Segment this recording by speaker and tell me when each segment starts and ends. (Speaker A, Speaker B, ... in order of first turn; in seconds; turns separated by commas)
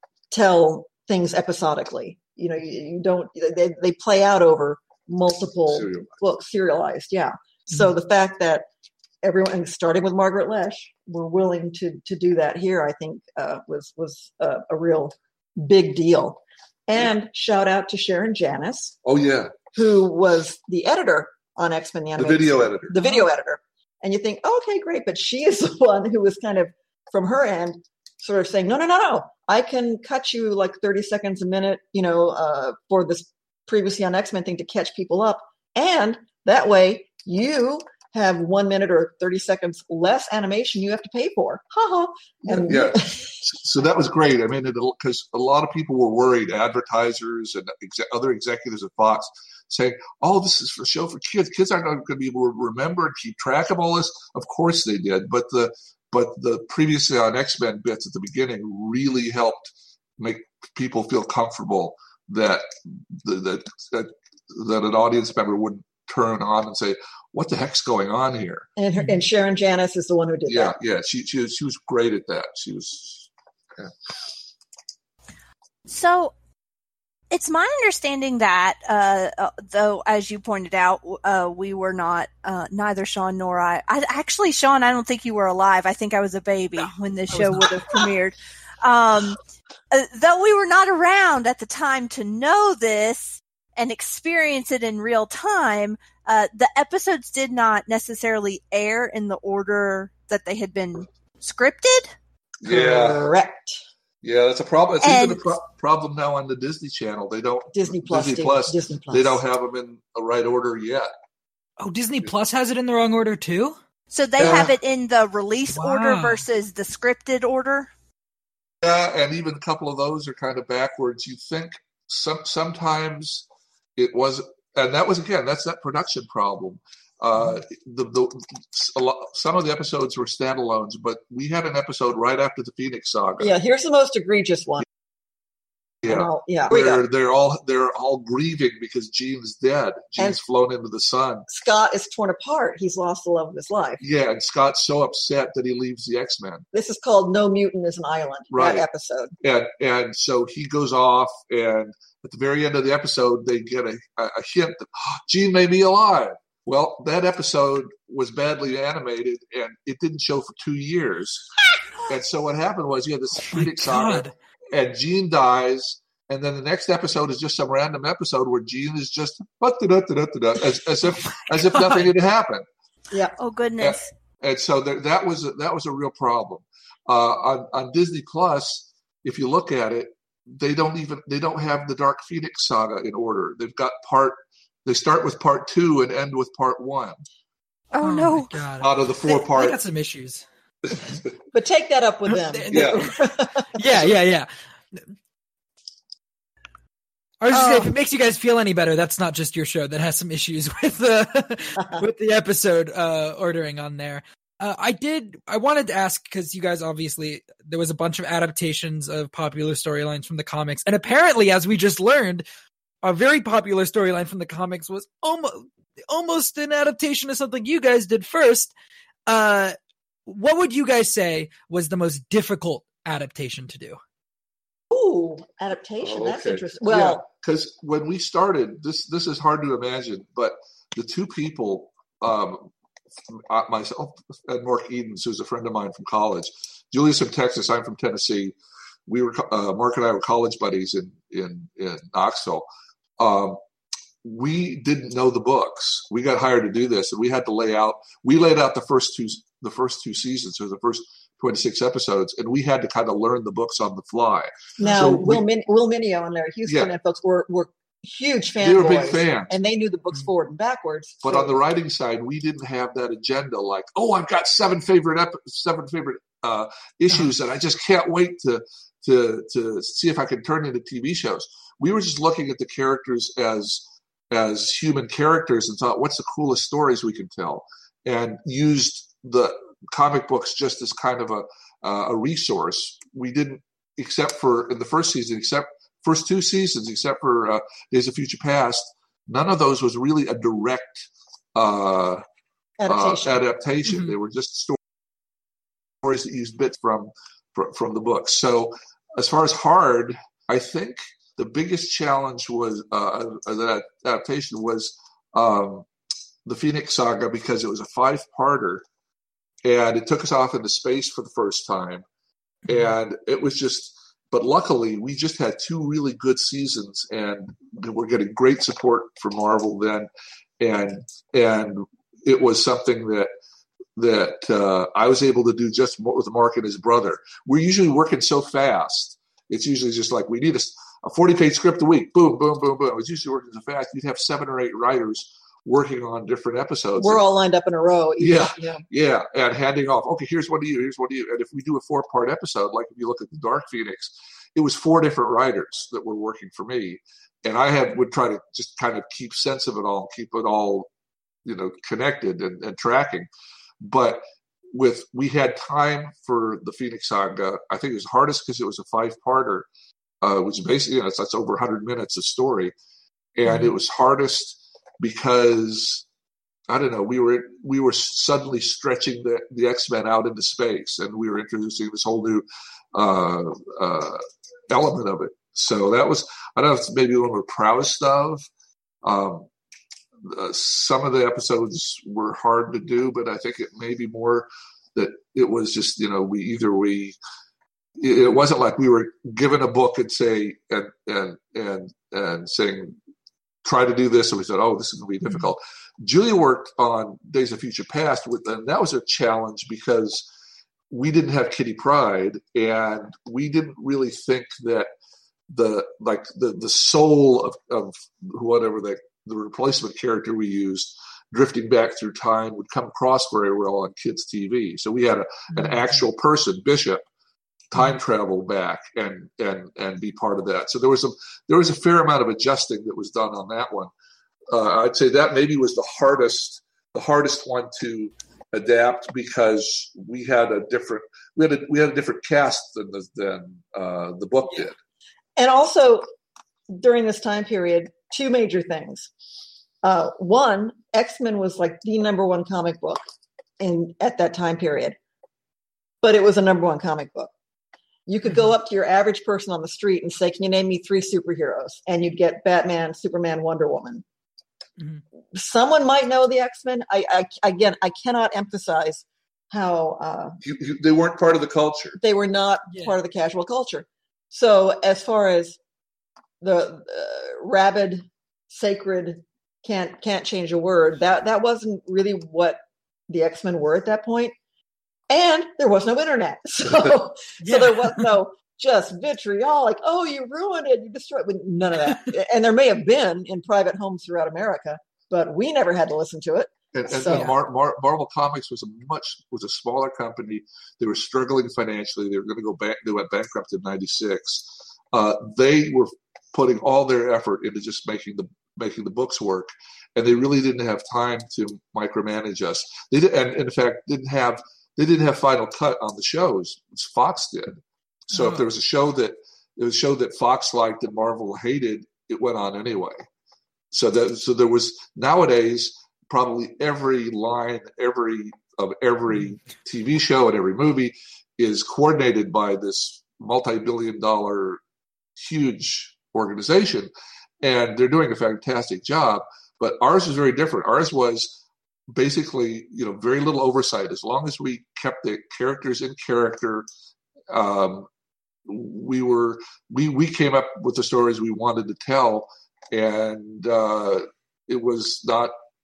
Speaker A: 0.3-8.7, Speaker B: 5.7-6.1, Speaker A: 9.2-19.0, Speaker B: 19.0-19.5, Speaker A: 19.7-43.1, Speaker B: 22.2-23.0, Speaker B: 42.6-68.7, Speaker A: 68.8-70.8, Speaker B: 70.5-73.9, Speaker C: 75.9-76.3, Speaker C: 77.3-89.4, Speaker D: 87.3-87.7, Speaker C: 89.9-102.1, Speaker B: 102.6-103.3, Speaker A: 102.7-103.8, Speaker B: 104.2-111.1, Speaker C: 105.0-105.6, Speaker A: 107.7-109.4, Speaker D: 111.8-113.8, Speaker C: 114.1-117.9, Speaker B: 114.4-114.7, Speaker D: 115.8-116.4, Speaker B: 118.8-123.4, Speaker B: 124.0-133.6, Speaker A: 133.4-134.9, Speaker B: 136.0-141.5, Speaker A: 136.1-137.1, Speaker A: 141.5-144.0, Speaker B: 144.0-146.7, Speaker A: 146.7-149.3, Speaker B: 148.5-148.8, Speaker B: 149.4-161.5, Speaker B: 162.1-172.7, Speaker D: 163.5-164.3, Speaker D: 171.5-172.1, Speaker C: 173.4-174.1, Speaker B: 173.8-187.2, Speaker C: 187.9-188.5, Speaker D: 188.0-190.4, Speaker B: 188.8-189.8, Speaker A: 191.5-193.8, Speaker D: 192.3-195.0, Speaker B: 192.7-193.1, Speaker D: 197.4-212.5, Speaker C: 197.5-197.9, Speaker D: 213.0-218.7, Speaker D: 219.3-219.8, Speaker D: 220.3-224.0, Speaker A: 224.9-227.2, Speaker B: 226.0-232.7, Speaker B: 233.3-238.6, Speaker B: 239.1-242.7, Speaker B: 243.2-243.6, Speaker B: 244.2-255.4, Speaker A: 254.8-261.5, Speaker B: 256.7-256.9, Speaker B: 258.6-259.5, Speaker B: 261.2-292.2, Speaker A: 292.8-293.4, Speaker B: 292.9-294.8, Speaker D: 293.9-294.1, Speaker B: 296.0-305.9, Speaker B: 306.5-308.9, Speaker B: 309.6-312.1, Speaker D: 312.7-312.9, Speaker B: 312.7-320.1, Speaker B: 320.6-323.3, Speaker B: 324.0-337.2, Speaker A: 337.0-338.8, Speaker B: 338.2-350.9, Speaker B: 351.4-353.3, Speaker B: 353.8-354.2, Speaker B: 354.7-359.7, Speaker B: 360.2-362.7, Speaker B: 363.4-366.1, Speaker D: 363.4-363.7, Speaker B: 366.7-378.5, Speaker B: 379.0-379.5, Speaker B: 380.2-387.1, Speaker B: 388.0-393.0, Speaker B: 393.6-400.2, Speaker B: 400.9-404.9, Speaker B: 405.5-417.0, Speaker B: 417.7-423.9, Speaker B: 424.5-434.8, Speaker A: 435.4-436.1, Speaker A: 436.7-439.1, Speaker A: 439.8-443.0, Speaker A: 443.6-445.0, Speaker A: 446.0-447.3, Speaker A: 448.1-454.0, Speaker A: 455.3-460.4, Speaker B: 460.4-462.0, Speaker A: 462.0-465.6, Speaker A: 466.4-474.3, Speaker A: 475.1-487.3, Speaker D: 477.4-478.0, Speaker B: 486.7-513.0, Speaker D: 487.1-487.3, Speaker D: 508.1-508.4, Speaker B: 513.7-524.6, Speaker B: 525.2-526.9, Speaker B: 527.4-531.3, Speaker B: 531.9-536.7, Speaker B: 537.3-537.9, Speaker B: 538.5-545.3